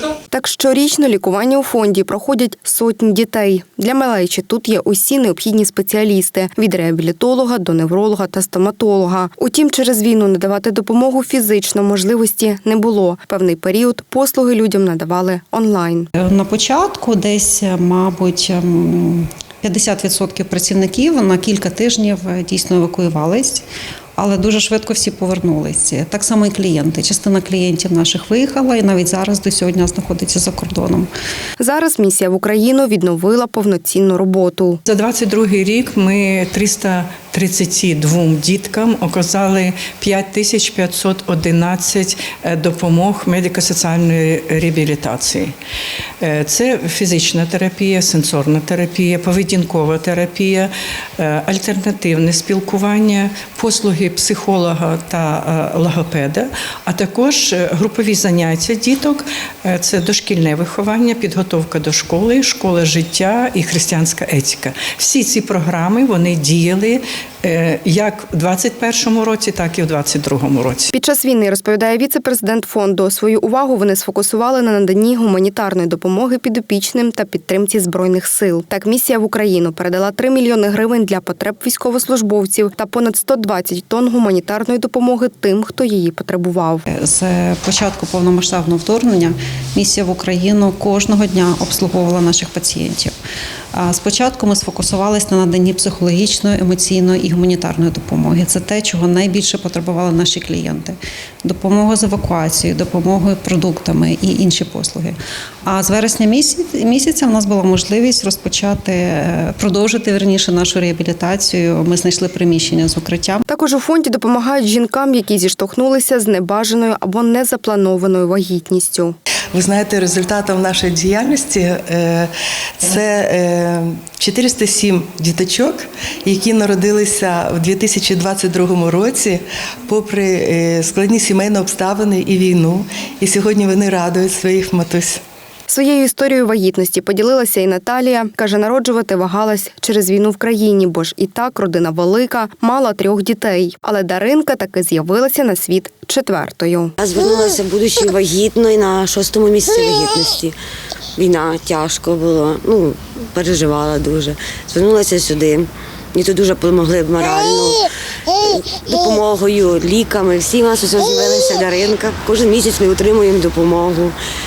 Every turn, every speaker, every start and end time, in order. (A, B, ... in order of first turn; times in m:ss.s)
0:00.3-0:16.1 A
0:16.2-0:23.6 B
0:24.2-0:31.1 B
0:31.6-0:34.8 A
0:34.9-0:45.5 C
0:46.2-1:10.9 C
1:10.9-1:26.8 A
1:26.9-1:33.1 B
1:33.7-1:45.2 B
1:45.7-1:53.4 B
1:53.5-1:59.2 A
1:59.5-2:15.2 D
2:15.7-2:27.0 A
2:27.0-2:30.6 E
2:31.2-2:44.2 E